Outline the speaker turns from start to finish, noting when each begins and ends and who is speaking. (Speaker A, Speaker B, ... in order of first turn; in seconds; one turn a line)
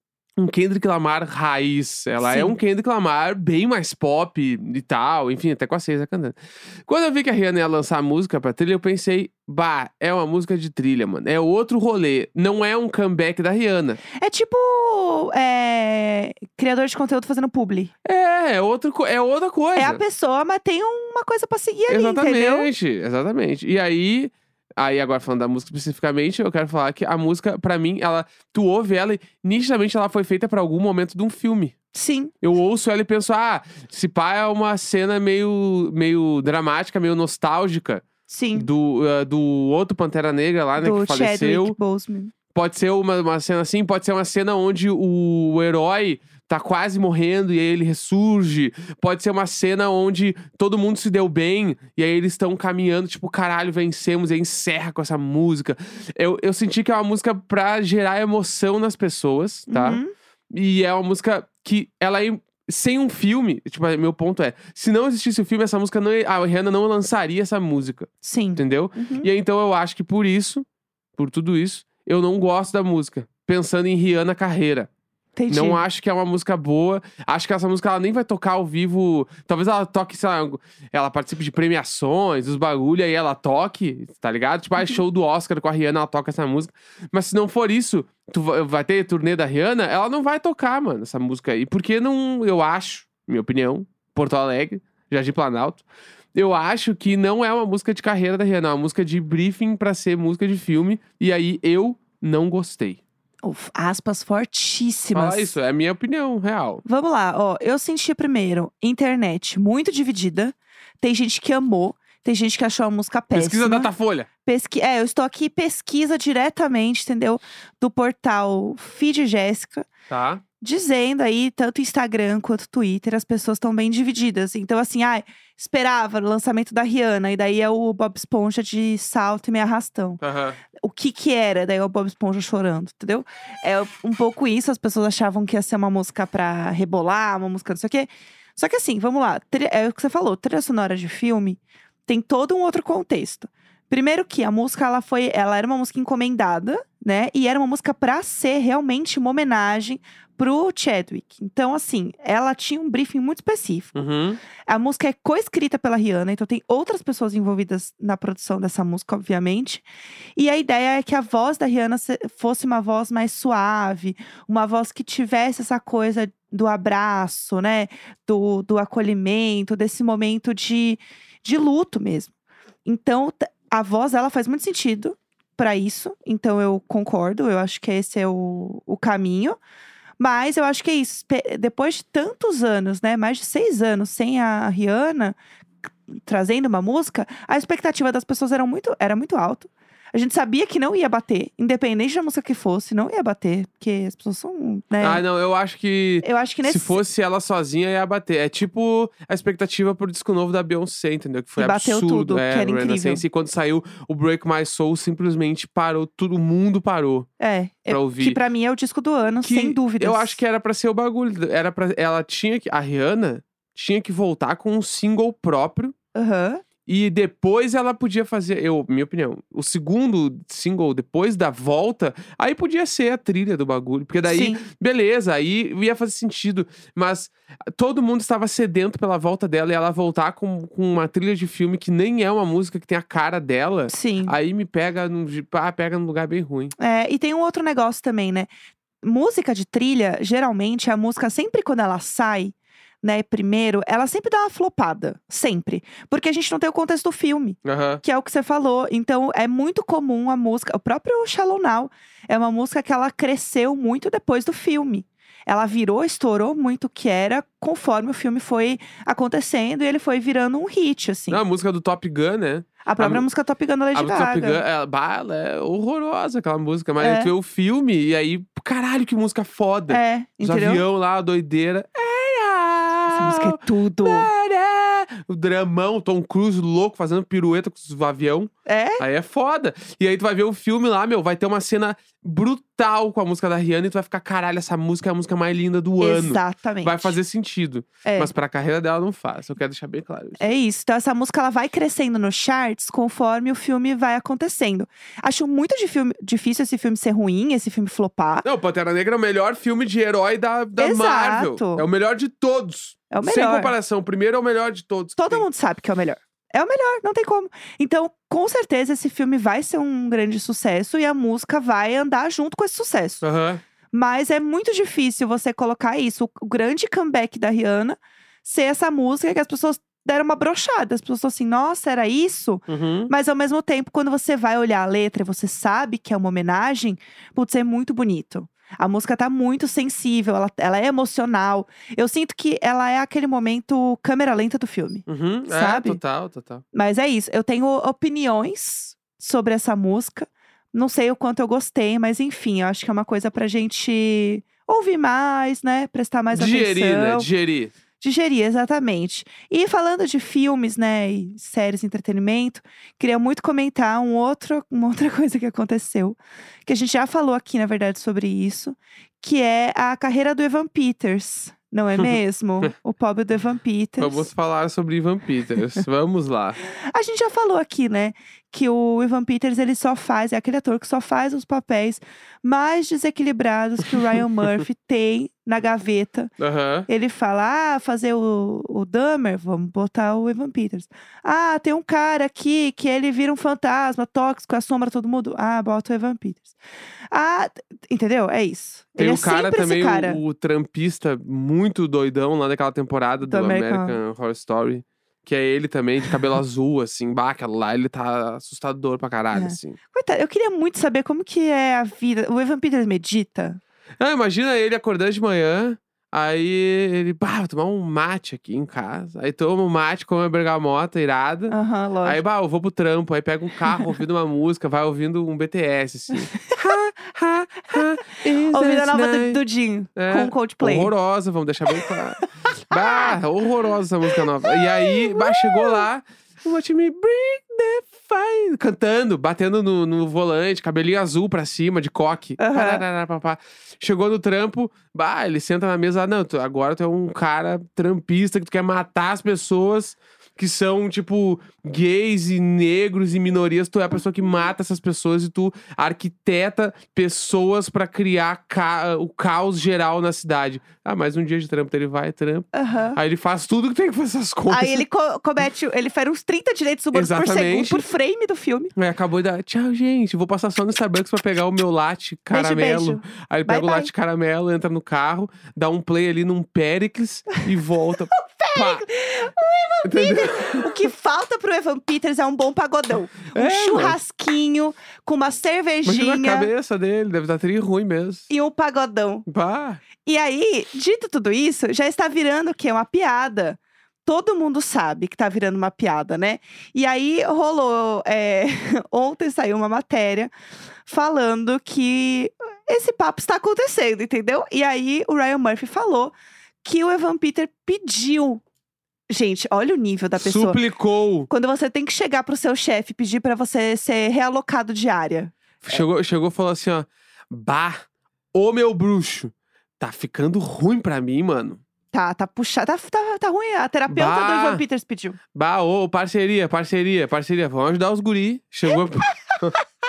Speaker A: 0.4-14.0
Speaker B: 2.2-2.6
Speaker B: 14.1-17.9
Speaker A: 18.1-20.0
Speaker B: 19.8-22.7
Speaker A: 21.9-31.8
Speaker B: 31.9-32.3
Speaker A: 32.4-41.8
Speaker B: 38.3-38.7
Speaker B: 40.8-42.3
Speaker A: 42.5-60.0
Speaker B: 59.7-60.1
Speaker A: 60.5-70.6
Speaker B: 68.2-69.3
Speaker A: 71.2-74.9
Speaker B: 75.4-75.8
Speaker A: 75.5-95.8
Speaker A: 96.3-103.0
Speaker B: 103.4-105.5
Speaker A: 105.1-106.8
Speaker B: 106.9-113.9
Speaker A: 113.3-114.3
Speaker B: 114.5-119.9
Speaker A: 120.1-120.4
Speaker B: 120.6-130.2
Speaker A: 130.2-130.6
Speaker B: 130.7-154.0
Speaker A: 153.9-154.4
Speaker B: 154.7-159.8
Speaker B: 160.4-172.3
Speaker B: 172.8-179.6
Speaker B: 180.2-185.4
Speaker B: 186.1-195.2
Speaker A: 195.0-207.3
Speaker B: 196.2-197.0
Speaker B: 201.6-203.2
Speaker B: 207.4-210.4
Speaker A: 207.9-208.4
Speaker A: 209.4-215.9
Speaker B: 216.2-216.6
Speaker A: 216.9-236.7
Speaker B: 224.2-224.6
Speaker B: 233.9-234.3
Speaker B: 236.8-238.5
Speaker B: 239.0-261.4
Speaker A: 247.7-248.0
Speaker A: 261.3-263.2
Speaker B: 262.9-264.6
Speaker A: 263.9-290.5
Speaker B: 267.0-267.3
Speaker B: 269.9-270.8
Speaker B: 273.1-274.3
Speaker B: 278.7-279.0
Speaker B: 286.0-287.2
Speaker B: 288.0-288.3
Speaker B: 290.4-298.5
Speaker A: 298.4-305.4
Speaker B: 300.8-301.9
Speaker B: 303.1-303.7
Speaker B: 305.2-313.2
Speaker A: 313.2-313.6
Speaker B: 313.9-336.0
Speaker A: 322.7-323.1
Speaker A: 335.1-336.6
Speaker B: 336.7-347.3
Speaker A: 346.3-347.7
Speaker B: 348.0-364.3
Speaker A: 364.0-366.6
Speaker B: 366.6-376.3
Speaker A: 376.4-376.9
Speaker B: 376.9-386.6
Speaker B: 387.1-390.2
Speaker A: 389.0-399.8
Speaker B: 393.3-394.0
Speaker B: 399.3-403.6
Speaker A: 404.0-419.4
Speaker B: 411.5-412.2
Speaker B: 418.4-420.9
Speaker A: 420.0-454.8
Speaker B: 421.7-423.2
Speaker B: 424.1-425.9
Speaker B: 432.4-432.8
Speaker B: 452.5-453.0
Speaker B: 454.5-458.7
Speaker A: 456.9-457.8
Speaker A: 458.8-468.8
Speaker B: 462.3-463.9
Speaker B: 468.1-476.5
Speaker A: 469.9-470.7
Speaker A: 473.3-474.0
Speaker A: 475.9-478.3
Speaker B: 478.3-479.3
Speaker A: 479.3-479.8
Speaker B: 480.0-490.3
Speaker B: 490.9-498.4
Speaker B: 499.1-500.6
Speaker A: 500.2-501.3
Speaker B: 501.3-505.8
Speaker A: 505.6-507.8
Speaker A: 508.3-511.6
Speaker B: 511.9-515.2
Speaker A: 513.9-514.6
Speaker A: 515.3-519.6